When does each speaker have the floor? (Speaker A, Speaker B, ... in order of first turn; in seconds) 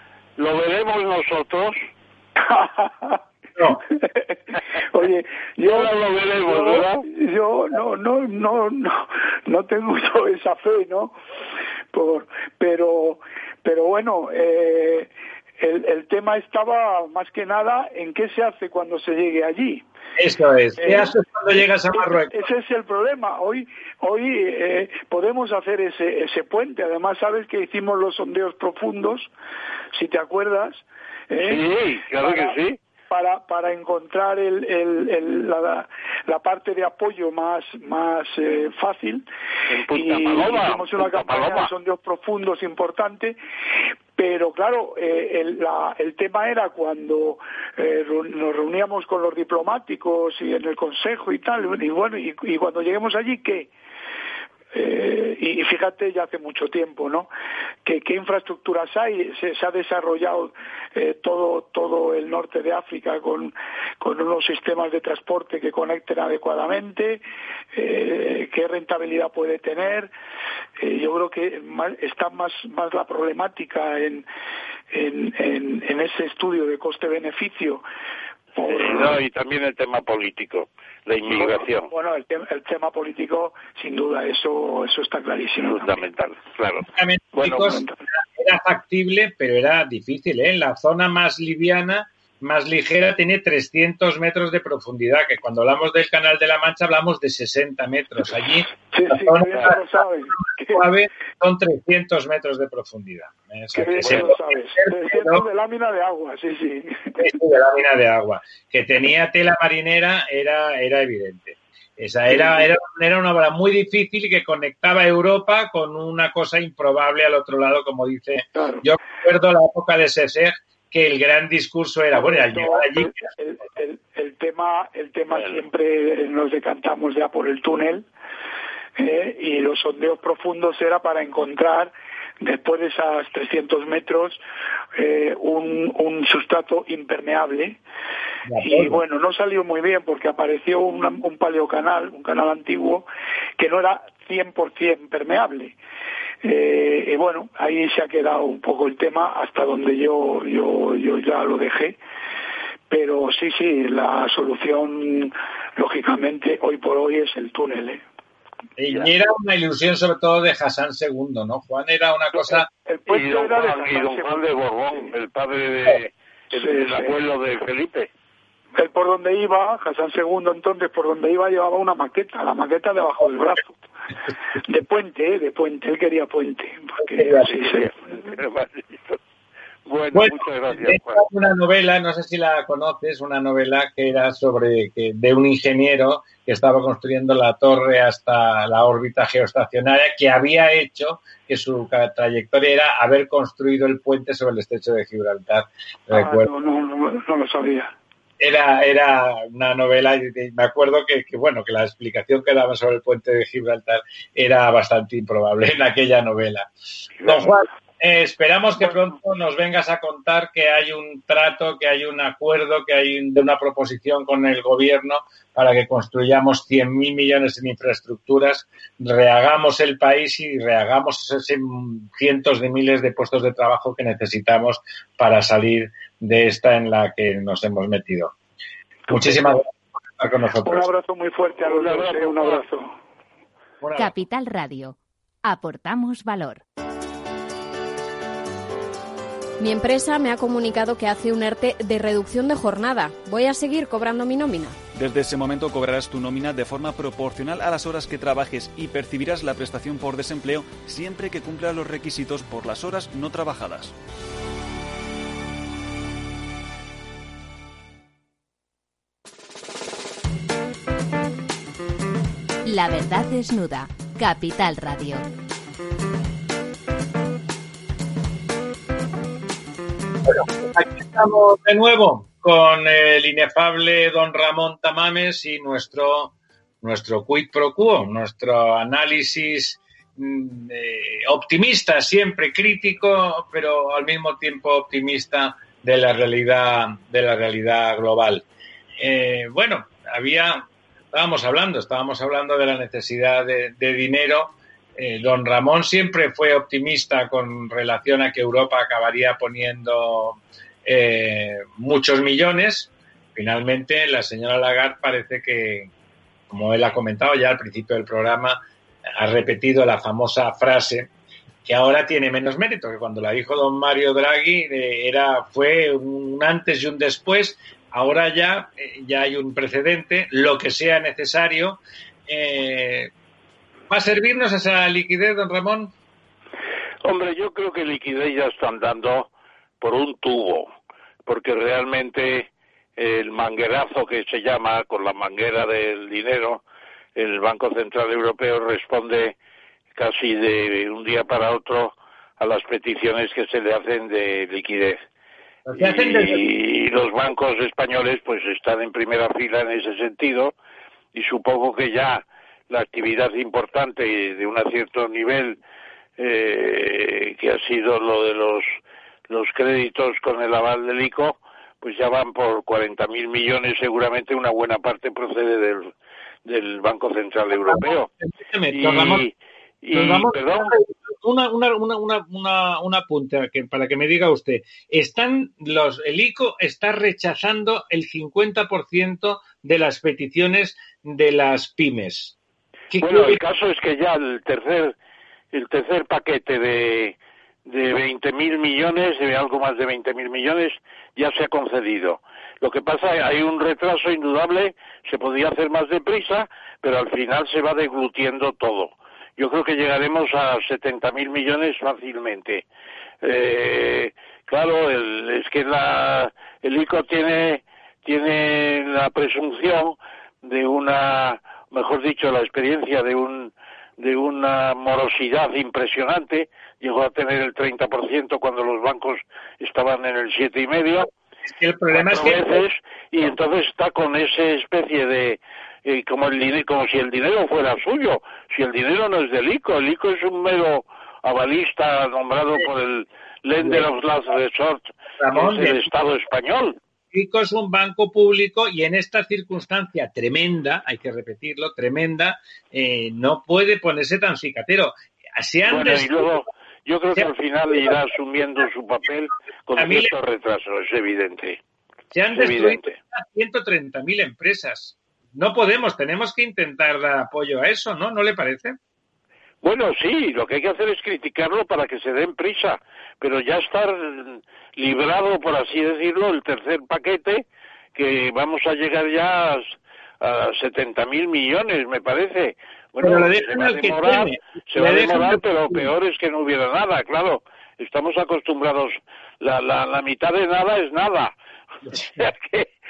Speaker A: 0.4-1.8, 5.6-7.0, 31.4-32.8, 39.7-41.7, 78.7-81.9, 85.6-86.9, 87.4-87.7, 163.1-168.1, 177.5-179.2, 179.9-181.2, 231.7-232.7, 327.0-329.3, 329.8-330.7, 331.3-336.6, 337.2-339.4, 339.9-345.0, 345.8-350.5, 351.1-355.6, 356.2-358.7, 359.3-365.9, 366.4-368.1, 368.7-370.7, 383.0-384.9, 385.5-387.1, 387.7-402.6, 403.2-421.1, 421.9-436.8, 445.7-451.6, 452.3-452.9, 459.6-481.3, 482.2-482.7
Speaker B: 2.5-3.2, 3.7-4.4, 4.9-11.1, 11.9-19.8, 20.8-29.3, 29.9-31.6, 32.2-32.6, 33.1-39.2, 39.8-43.4, 44.2-53.7, 54.7-57.3, 57.9-67.2, 67.7-70.1, 70.8-74.3, 74.9-77.8, 78.6-79.2, 81.4-86.1, 87.6-87.9, 98.9-100.8, 103.7-107.2, 118.5-118.8, 122.1-128.1, 129.0-134.4, 135.0-137.8, 138.6-143.1, 143.6-145.8, 146.4-152.0, 152.9-158.0, 162.4-165.1, 166.5-167.2, 168.8-173.7, 174.6-177.9, 196.1-197.9, 229.1-229.6, 230.6-232.9
Speaker C: 20.2-22.4, 86.9-87.8, 88.4-99.7, 100.7-105.5, 107.2-123.1, 138.5-139.0, 158.8-162.7, 177.2-177.4, 180.1-196.5, 198.4-206.7, 207.2-228.3, 229.1-230.9, 233.8-234.1, 270.3-288.4, 289.0-305.9, 306.5-308.6, 309.2-311.1, 311.6-323.1, 323.9-325.9, 345.7-346.4, 368.4-369.3, 369.9-382.4, 382.9-383.4, 421.5-422.6, 433.6-433.9, 435.2-435.9, 437.1-446.3, 447.1-447.9, 449.8-450.1, 452.1-458.8, 473.0-475.9
Speaker D: 234.0-236.6, 262.6-265.2
Speaker E: 239.6-244.8
Speaker F: 244.9-253.9